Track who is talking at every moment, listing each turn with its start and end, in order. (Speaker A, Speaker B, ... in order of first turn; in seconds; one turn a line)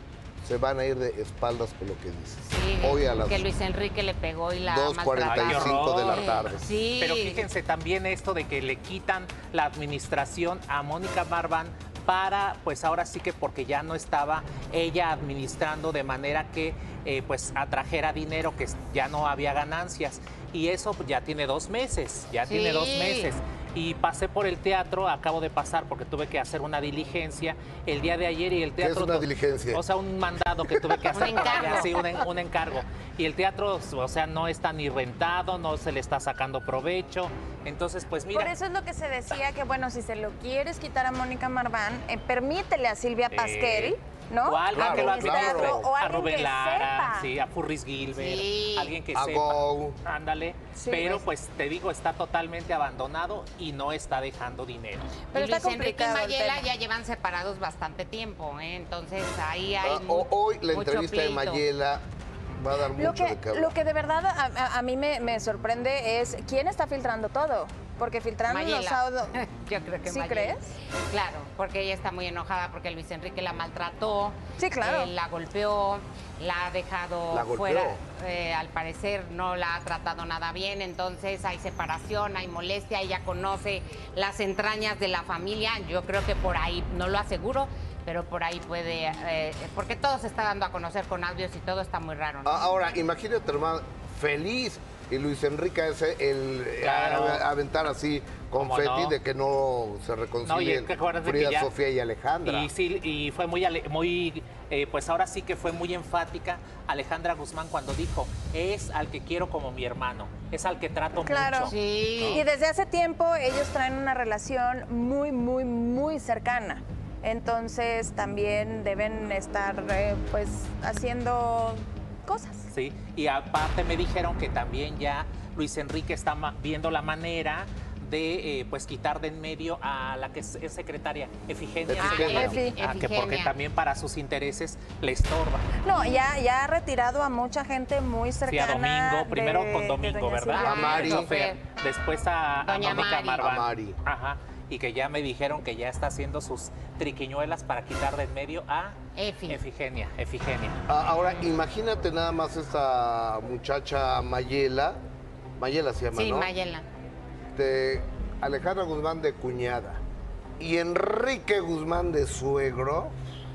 Speaker A: 0.4-3.5
Speaker B: 2.4-7.5
Speaker A: 4.6-6.7
Speaker C: 5.2-38.5
Speaker B: 22.5-23.3
Speaker A: 28.8-29.8
Speaker A: 30.7-31.3
Speaker B: 31.1-31.9
Speaker D: 31.3-32.1
Speaker D: 38.3-47.3
Speaker C: 43.3-55.2
Speaker A: 44.7-45.9
Speaker B: 48.2-48.9
Speaker A: 49.1-50.0
Speaker D: 50.8-51.2
Speaker D: 55.3-56.6
Speaker B: 55.3-61.7
Speaker A: 59.8-62.0
Speaker A: 62.6-63.8
Speaker D: 63.0-69.4
Speaker B: 68.5-92.6
Speaker D: 70.0-70.7
Speaker D: 74.6-75.1
Speaker A: 77.3-78.0
Speaker A: 92.4-102.7
Speaker C: 96.8-97.5
Speaker C: 98.6-99.2
Speaker C: 100.4-101.7
Speaker C: 102.4-112.4
Speaker D: 111.2-111.7
Speaker B: 111.6-112.4
Speaker D: 112.3-122.7
Speaker C: 122.7-135.7
Speaker A: 131.9-132.5
Speaker B: 132.0-133.6
Speaker D: 132.4-132.7
Speaker D: 135.8-141.2
Speaker C: 138.5-150.8
Speaker A: 140.6-141.3
Speaker B: 140.8-141.6
Speaker B: 142.6-143.4
Speaker A: 143.4-144.0
Speaker B: 149.2-149.6
Speaker A: 150.9-155.0
Speaker A: 155.6-156.5
Speaker B: 156.1-156.9
Speaker A: 157.6-160.0
Speaker A: 160.6-163.2